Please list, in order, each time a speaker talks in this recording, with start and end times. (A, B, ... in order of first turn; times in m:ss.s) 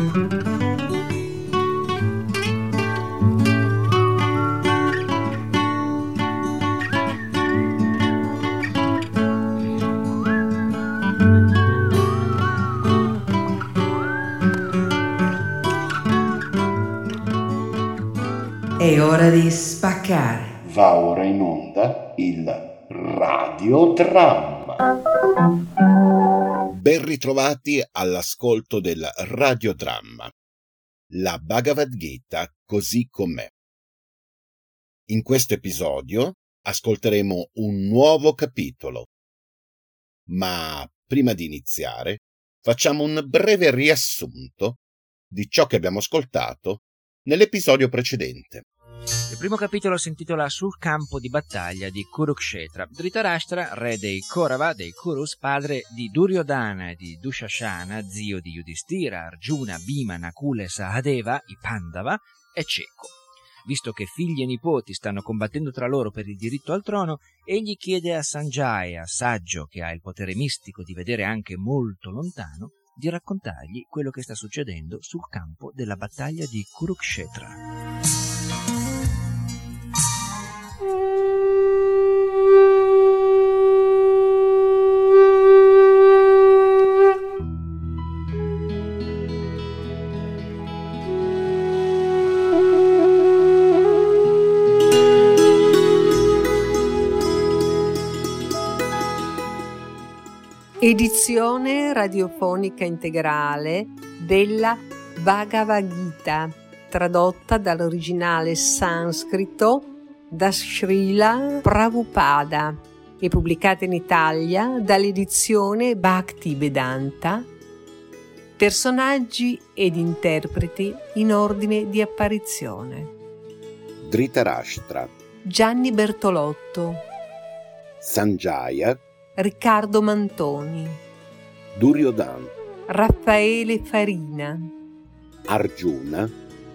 0:18.8-0:20.5 A
0:20.6-0:24.8 B
0:26.7-0:30.3 B
0:31.1-0:33.5 B
0:35.1-0:39.1 B
0:40.3-0:44.8 B
0:45.3-0:48.6 B
0:49.3-1:17.6 C
1:40.8-1:57.5 A
1:58.6-2:03.1 A
2:04.0-2:05.1 B
2:05.5-2:07.0 A
2:08.0-2:09.0 B
2:09.4-2:11.0 A
2:11.8-2:12.5 B
2:12.9-2:14.7 A
2:15.5-2:16.3 B